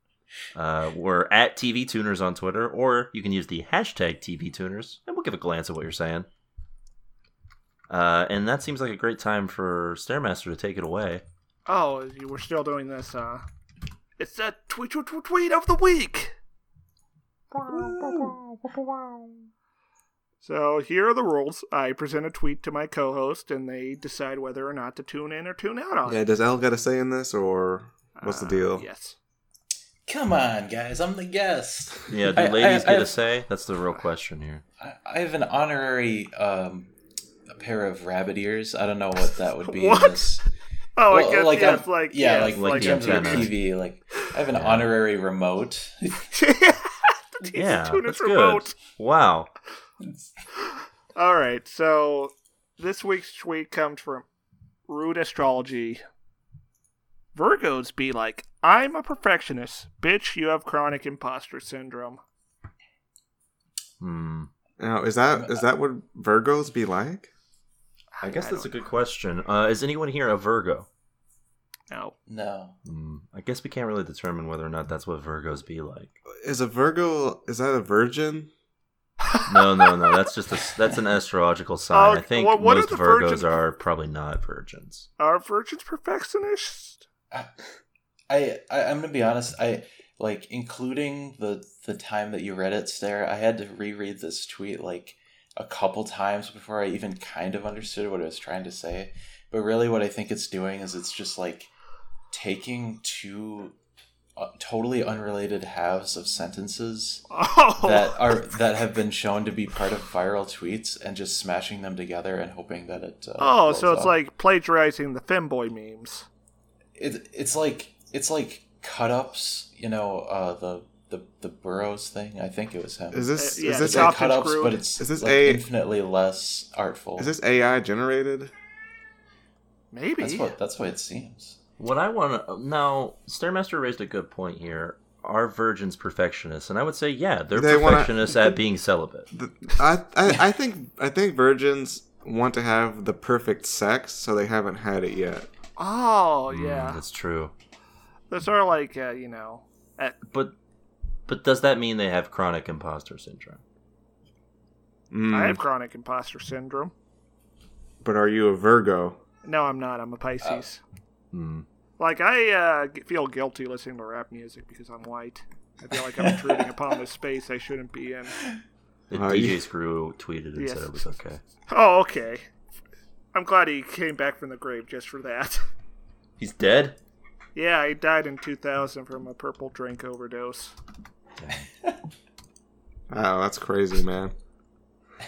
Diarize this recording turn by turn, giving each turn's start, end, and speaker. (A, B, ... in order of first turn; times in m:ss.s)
0:00.5-0:06.3 A
0:07.9-0:11.2 A
0:11.7-0:13.4 B
0:14.2-0:16.4 B
0:17.5-0:19.1 C
0:20.4-0:26.2 B
0:26.1-0:28.9 C
0:28.2-0:29.2 B
0:30.1-0:33.1 D
0:32.1-0:34.6 A
0:34.8-0:36.9 D
0:37.5-0:40.5 D
0:39.7-0:40.3 B
0:41.0-0:43.5 B
0:41.1-0:46.2 D
0:42.5-0:43.6 A
0:44.5-0:44.9 A
0:46.3-0:48.8 B
0:47.6-0:49.5 A
0:50.0-0:50.3 D
0:50.6-0:54.2 B
0:54.9-0:56.0 B
0:57.4-1:02.2 B
1:04.0-1:04.5 A
1:04.8-1:07.3 C
1:05.3-1:05.6 D
1:08.2-1:08.8 B
1:08.2-1:10.9 A
1:11.9-1:12.2 B
1:12.3-1:12.8 D
1:12.8-1:16.2 A
1:16.3-1:18.5 C
1:19.3-1:19.9 B
1:19.5-1:25.1 A
1:21.9-1:23.6 B
1:25.2-1:27.0 B
1:28.3-1:41.7 D
1:42.3-1:43.8 D
1:44.4-1:47.3 D
1:47.3-1:48.2 B
1:47.8-1:54.2 D
1:53.4-1:56.3 B
1:57.0-2:07.3 D
2:03.1-2:04.4 C
2:03.4-2:04.8 B
2:05.0-2:05.6 C
2:07.2-2:08.5 C
2:09.9-2:10.5 B
2:10.2-2:11.6 D
2:11.8-2:19.3 A
2:17.5-2:18.6 C
2:19.3-2:25.5 C
2:25.8-2:27.0 B
2:26.5-2:27.5 A
2:28.3-2:30.2 B
2:30.3-2:30.6 A
2:31.3-2:33.6 A
2:35.1-2:35.6 C
2:35.3-2:36.9 B
2:38.0-2:39.2 C
2:39.4-2:40.8 B
2:41.3-2:41.7 A
2:42.0-2:48.4 B
2:49.1-2:51.4 A
2:49.1-2:49.6 C
2:50.6-2:51.0 B
2:51.7-2:52.5 B
2:53.3-2:55.6 B
2:56.4-2:57.0 A
2:57.6-3:00.8 B
3:01.4-3:01.6 A
3:03.1-3:04.3 C